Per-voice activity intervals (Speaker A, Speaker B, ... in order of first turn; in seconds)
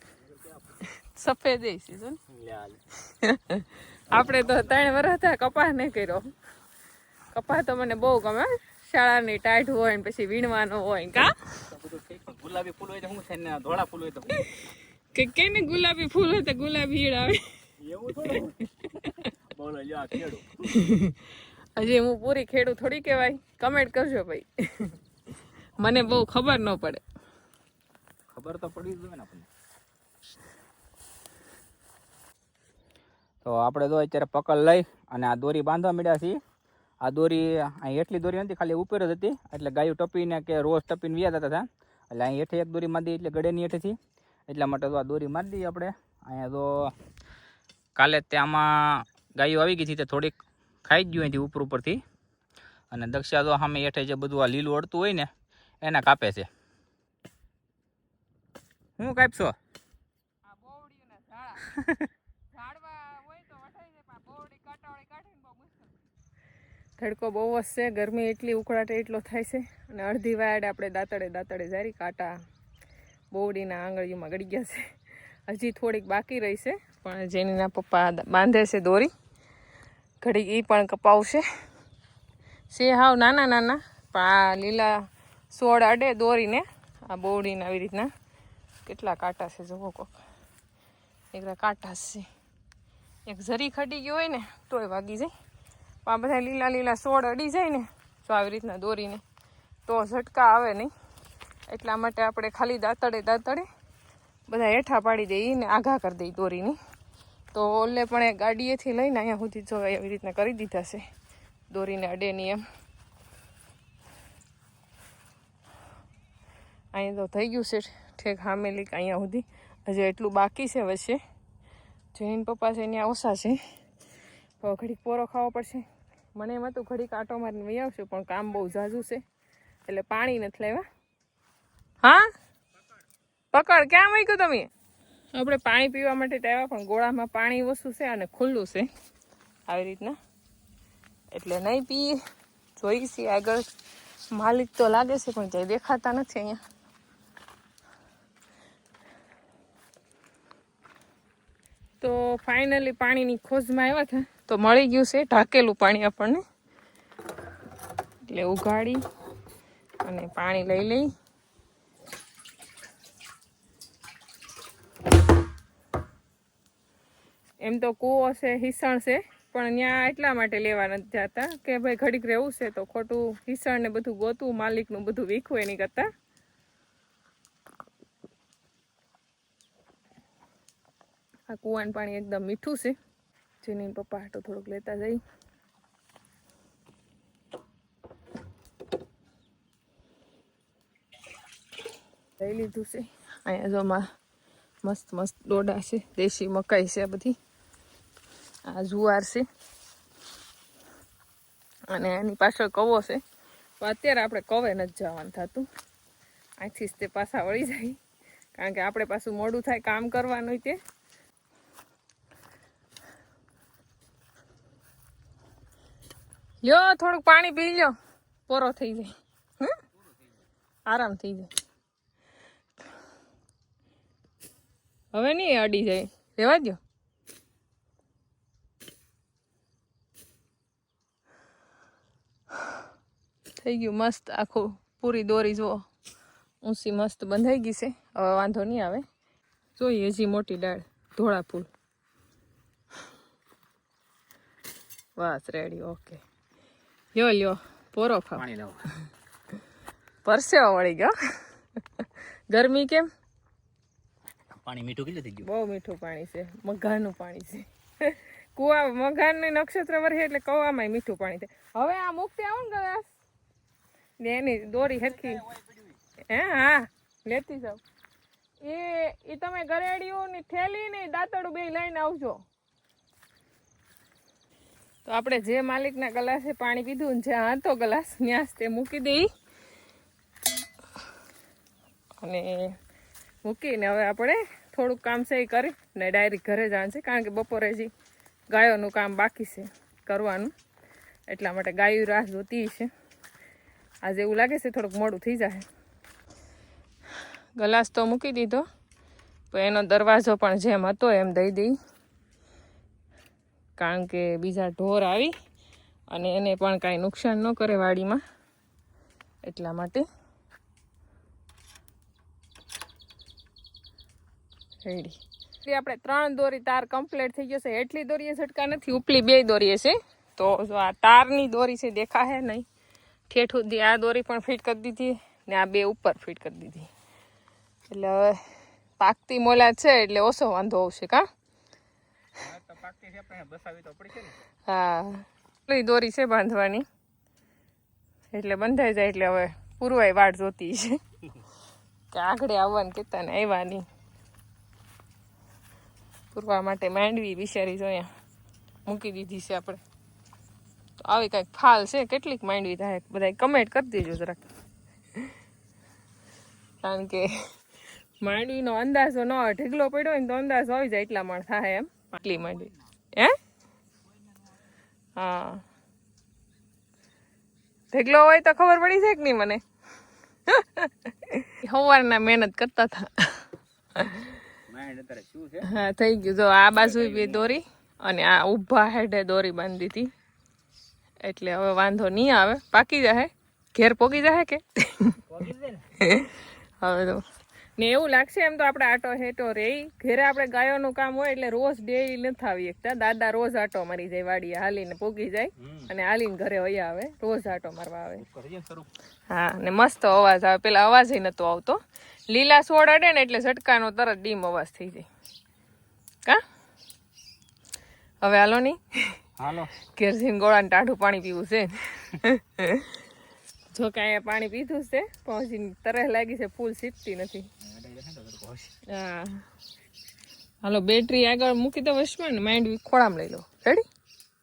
Speaker A: 0.2-0.8, 2.3-2.8, 4.1-4.9, 11.7-14.4, 17.8-20.7, 28.3-29.5, 33.4-36.4, 37.0-44.0, 44.5-46.9, 48.0-52.0, 52.9-55.3, 55.8-56.5, 59.0-59.5, 61.7-62.1, 248.3-248.9, 254.6-255.5, 265.2-266.0, 332.4-334.4, 364.1-364.4, 374.5-375.7, 376.8-377.6, 385.3-385.9, 395.6-395.9, 398.2-398.9, 409.4-409.7, 417.6-418.7
Speaker B: 1.0-2.2, 3.1-6.3, 7.3-11.5, 14.4-17.4, 19.0-19.3, 20.7-25.0, 25.8-27.0, 60.5-61.7, 62.5-65.9, 67.0-72.3, 73.3-74.9, 75.5-79.1, 80.2-81.5, 82.7-84.9, 85.5-88.1, 88.8-90.2, 91.3-92.3, 93.3-95.3, 96.0-99.2, 99.9-100.9, 101.7-103.7, 104.5-106.8, 107.5-111.0, 111.7-112.6, 116.9-121.2, 122.1-123.6, 124.6-125.8, 126.4-129.2, 129.9-130.8, 132.0-132.3, 133.5-134.7, 135.3-138.9, 139.7-140.2, 141.3-142.2, 142.8-143.7, 144.3-146.6, 152.0-156.4, 158.3-159.0, 160.0-161.1, 167.6-176.1, 181.5-183.0, 183.6-185.2, 192.4-194.1, 194.8-197.4, 198.7-199.4, 201.9-203.2, 203.8-205.7, 206.6-208.0, 208.6-210.8, 216.6-217.9, 218.5-219.8, 220.9-221.5, 225.1-226.8, 233.6-235.8, 236.6-239.1, 239.8-241.7, 245.2-246.2, 247.2-248.4, 250.2-251.1, 252.0-253.1, 255.4-263.1, 264.2-265.4, 266.3-267.8, 268.6-272.4, 275.1-279.3, 282.2-282.7, 283.4-287.9, 288.5-290.5, 291.3-292.9, 294.1-295.6, 297.6-298.6, 299.5-301.7, 303.8-305.3, 306.1-308.2, 309.4-310.1, 314.9-322.7, 323.3-326.9, 327.9-328.4, 329.0-331.3, 334.7-336.9, 338.3-341.0, 342.1-343.8, 346.3-348.1, 348.9-349.8, 351.1-354.4, 356.8-357.3, 358.2-363.4, 365.2-365.6, 367.9-369.6, 370.5-373.4, 375.7-380.1, 381.2-385.2, 386.0-387.2, 387.8-398.2, 399.3-401.8, 402.3-405.1, 408.2-409.1, 409.9-413.0, 413.7-417.5, 418.9-419.4, 420.6-423.8